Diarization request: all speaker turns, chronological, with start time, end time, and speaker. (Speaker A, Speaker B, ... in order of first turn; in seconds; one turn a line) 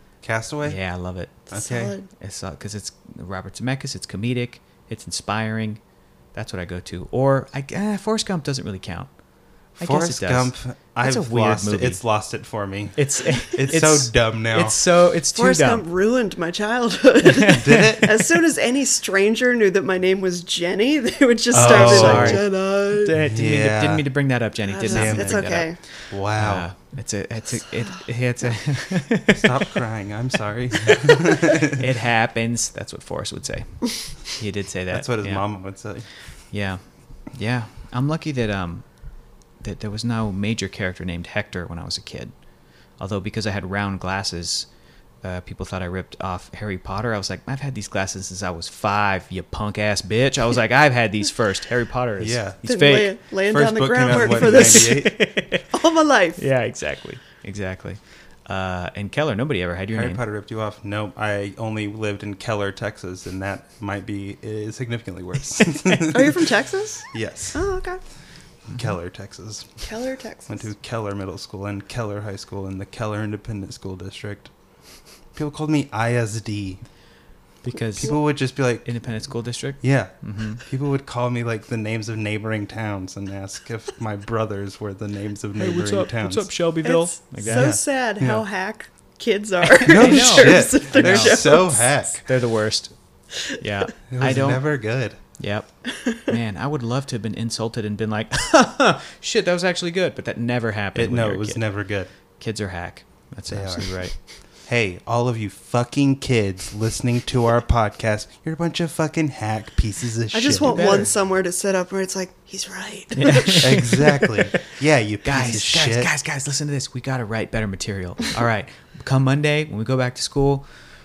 Speaker A: 0.2-0.8
Speaker B: 0.6-1.5
Speaker A: 1.5-1.9
Speaker C: 1.5-2.1
Speaker B: 2.1-5.8
Speaker B: 6.3-9.1
Speaker A: 9.8-14.8
Speaker B: 9.8-12.0
Speaker B: 13.0-15.8
Speaker C: 15.3-23.1
Speaker B: 17.2-17.9
Speaker A: 17.5-18.2
Speaker A: 21.5-22.4
Speaker B: 21.5-29.8
Speaker A: 23.2-24.1
Speaker C: 24.7-25.8
Speaker A: 24.9-25.5
Speaker A: 26.1-26.7
Speaker A: 29.3-31.9
Speaker B: 30.9-35.4
Speaker A: 34.9-36.1
Speaker B: 36.5-38.9
Speaker B: 39.6-42.3
Speaker B: 43.0-44.7
Speaker B: 45.2-53.1
Speaker A: 52.2-52.6
Speaker C: 52.6-56.4
Speaker A: 53.5-55.3
Speaker B: 54.4-55.6
Speaker B: 56.4-60.2
Speaker A: 59.9-66.5
Speaker B: 65.7-66.1
Speaker C: 66.1-68.0
Speaker A: 67.1-67.6
Speaker A: 68.7-69.8
Speaker C: 69.8-70.7
Speaker A: 70.5-74.5
Speaker A: 75.3-76.8
Speaker B: 77.6-78.2
Speaker A: 78.0-78.9
Speaker B: 78.8-80.6
Speaker A: 79.8-86.5
Speaker B: 85.6-87.7
Speaker C: 86.8-92.1
Speaker A: 87.4-88.4
Speaker A: 89.8-92.2
Speaker B: 89.8-91.7
Speaker B: 92.2-94.7
Speaker A: 94.1-95.2
Speaker B: 95.4-101.6
Speaker C: 95.9-96.3
Speaker A: 101.0-102.1
Speaker B: 102.4-104.2
Speaker A: 103.5-104.0
Speaker A: 104.7-111.0
Speaker C: 110.3-114.2
Speaker B: 110.6-111.1
Speaker B: 113.2-114.3
Speaker A: 113.6-116.1
Speaker B: 115.2-120.7